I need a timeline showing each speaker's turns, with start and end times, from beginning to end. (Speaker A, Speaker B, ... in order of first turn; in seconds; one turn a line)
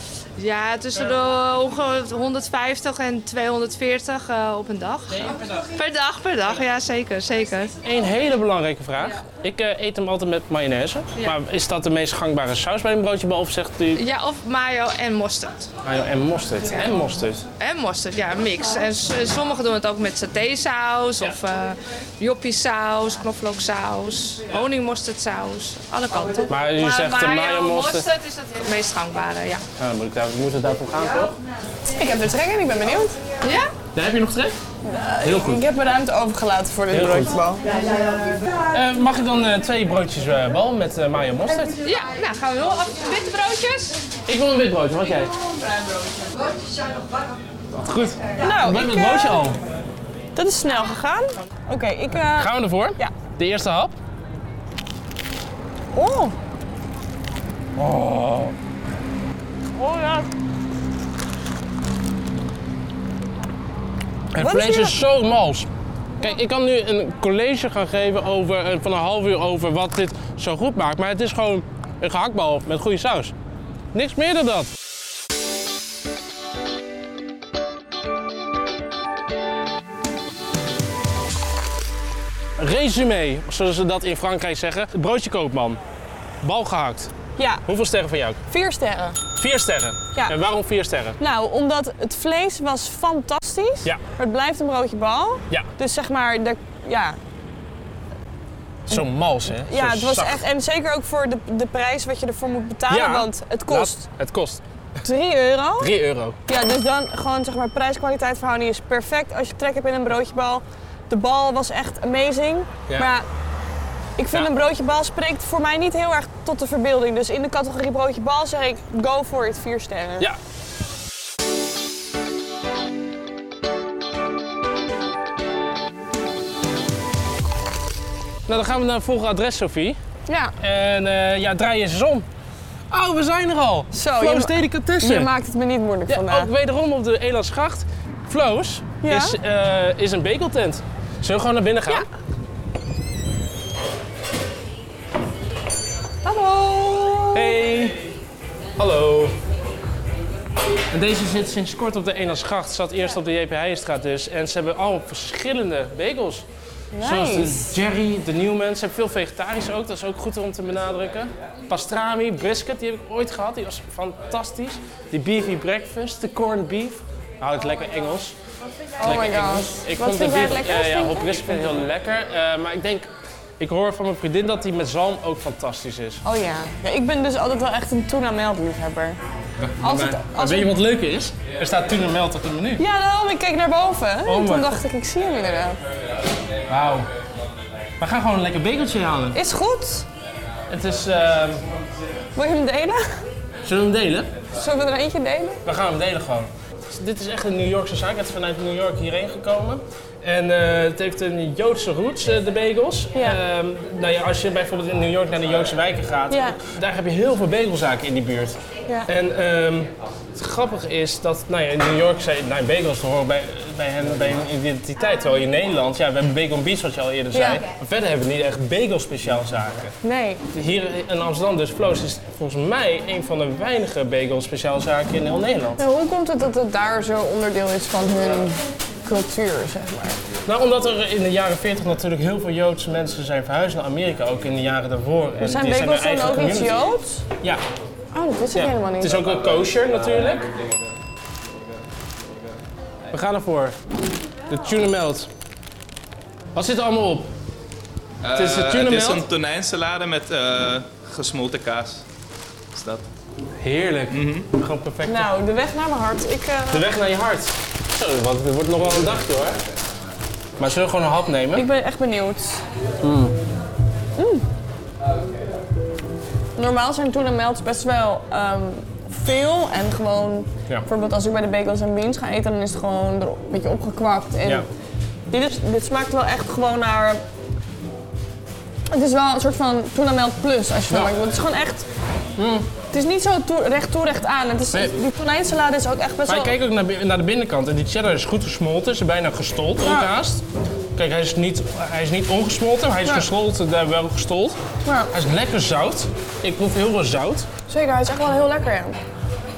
Speaker A: 0.4-7.8
Speaker B: 5.1-5.6
Speaker B: 7.8-14.0
Speaker A: 13.9-15.7
Speaker B: 15.8-17.5
Speaker A: 17.6-29.6
Speaker B: 26.5-28.1
Speaker B: 29.8-31.4
Speaker C: 31.9-33.2
Speaker A: 33.4-33.7
Speaker B: 33.9-34.6
Speaker C: 34.8-37.6
Speaker B: 35.2-35.6
Speaker B: 36.9-37.3
Speaker B: 38.7-41.8
Speaker A: 41.8-44.1
Speaker B: 44.3-45.3
Speaker B: 47.7-49.6
Speaker C: 48.4-49.5
Speaker C: 50.4-53.1
Speaker B: 52.3-53.9
Speaker C: 55.9-56.3
Speaker B: 57.8-58.5
Speaker C: 59.8-60.3
Speaker B: 64.3-65.7
Speaker C: 64.4-65.0
Speaker B: 66.2-73.3
Speaker B: 73.9-74.7
Speaker B: 82.6-85.8
Speaker B: 86.4-87.1
Speaker C: 87.4-87.6
Speaker B: 87.7-88.4
Speaker C: 88.5-89.2
Speaker B: 89.4-91.2
Speaker C: 91.2-97.2
Speaker B: 98.9-100.4
Speaker C: 99.6-104.0
Speaker B: 102.9-104.6
Speaker C: 105.0-105.9
Speaker B: 105.8-106.4
Speaker C: 106.5-113.2
Speaker C: 114.2-120.3
Speaker B: 128.5-130.0
Speaker C: 130.3-130.5
Speaker B: 130.6-132.2
Speaker B: 132.9-135.3
Speaker C: 133.9-136.5
Speaker B: 136.1-142.1
Speaker C: 139.0-139.3
Speaker C: 146.2-147.6
Speaker B: 147.3-148.1
Speaker B: 148.8-149.4
Speaker B: 150.9-156.4
Speaker C: 156.9-157.7
Speaker B: 157.0-168.3
Speaker C: 169.0-171.7
Speaker B: 169.0-173.1
Speaker B: 173.6-176.2
Speaker C: 176.2-179.2
Speaker B: 179.6-182.8
Speaker C: 179.8-180.7
Speaker C: 182.8-185.8
Speaker B: 184.2-184.8
Speaker B: 186.7-187.1
Speaker B: 188.0-189.4
Speaker C: 189.3-190.1
Speaker B: 190.7-191.6
Speaker C: 192.3-193.2
Speaker B: 193.6-194.3
Speaker C: 194.5-195.6
Speaker B: 195.6-219.9
Speaker C: 206.3-206.6
Speaker C: 217.3-217.6
Speaker C: 220.0-220.4
Speaker B: 220.5-225.8
Speaker C: 225.8-230.2
Speaker B: 230.4-236.8
Speaker C: 235.4-237.2
Speaker C: 238.1-239.2
Speaker B: 238.5-240.5
Speaker B: 243.1-243.8
Speaker B: 244.5-245.3
Speaker B: 246.5-247.3
Speaker D: 248.2-252.0
Speaker B: 248.3-249.2
Speaker D: 252.7-253.0
Speaker B: 253.6-255.3
Speaker D: 254.1-254.5
Speaker C: 255.0-256.8
Speaker B: 256.7-259.6
Speaker B: 260.6-261.6
Speaker C: 261.5-262.6
Speaker B: 263.0-263.4
Speaker C: 264.2-264.4
Speaker C: 266.6-274.6
Speaker C: 275.3-277.2
Speaker C: 278.9-281.9
Speaker B: 282.4-282.7
Speaker C: 282.9-286.5
Speaker B: 286.3-290.4
Speaker C: 289.8-290.1
Speaker B: 290.9-294.6
Speaker C: 294.8-295.1
Speaker B: 295.1-297.5
Speaker C: 297.7-299.0